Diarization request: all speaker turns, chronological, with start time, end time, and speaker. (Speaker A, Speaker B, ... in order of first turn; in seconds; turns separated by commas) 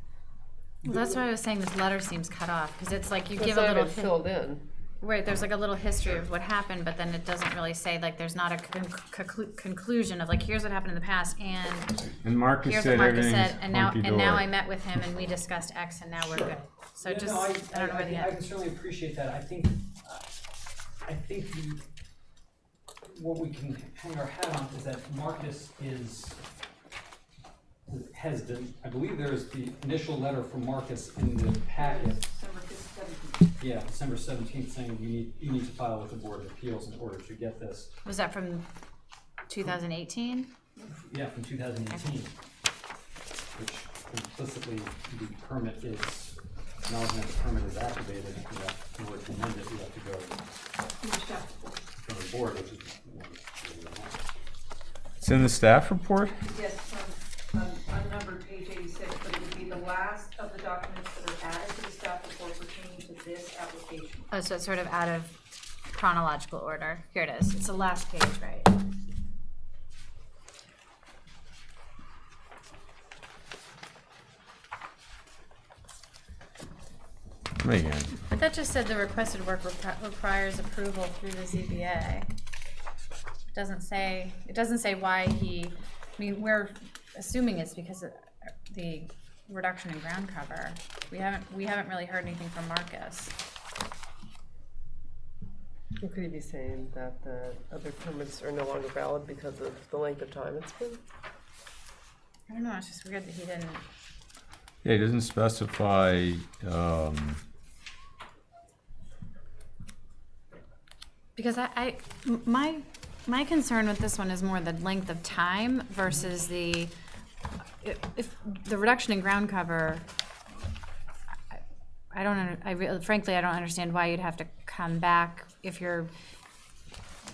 Speaker A: 0.8-4.2, Speaker B: 3.4-4.6, Speaker A: 5.0-12.1, Speaker C: 12.2-14.5, Speaker A: 12.6-18.3, Speaker D: 16.2-20.2, Speaker D: 21.0-21.8, Speaker D: 23.1-26.4, Speaker D: 27.9-32.2, Speaker E: 31.7-33.5, Speaker D: 33.6-37.9, Speaker A: 38.0-38.7, Speaker A: 39.5-40.5, Speaker D: 40.9-42.4, Speaker D: 43.5-50.6, Speaker E: 51.0-51.9, Speaker D: 52.0-54.2, Speaker C: 55.2-56.4, Speaker E: 56.4-64.3, Speaker A: 64.3-65.3, Speaker A: 65.9-68.8, Speaker C: 77.6-78.1, Speaker A: 78.2-82.3, Speaker A: 83.5-93.3, Speaker B: 96.0-101.0, Speaker A: 102.5-103.8, Speaker C: 104.8-107.4, Speaker A: 111.3-116.9, Speaker A: 117.8-120.0, Speaker A: 121.5-126.1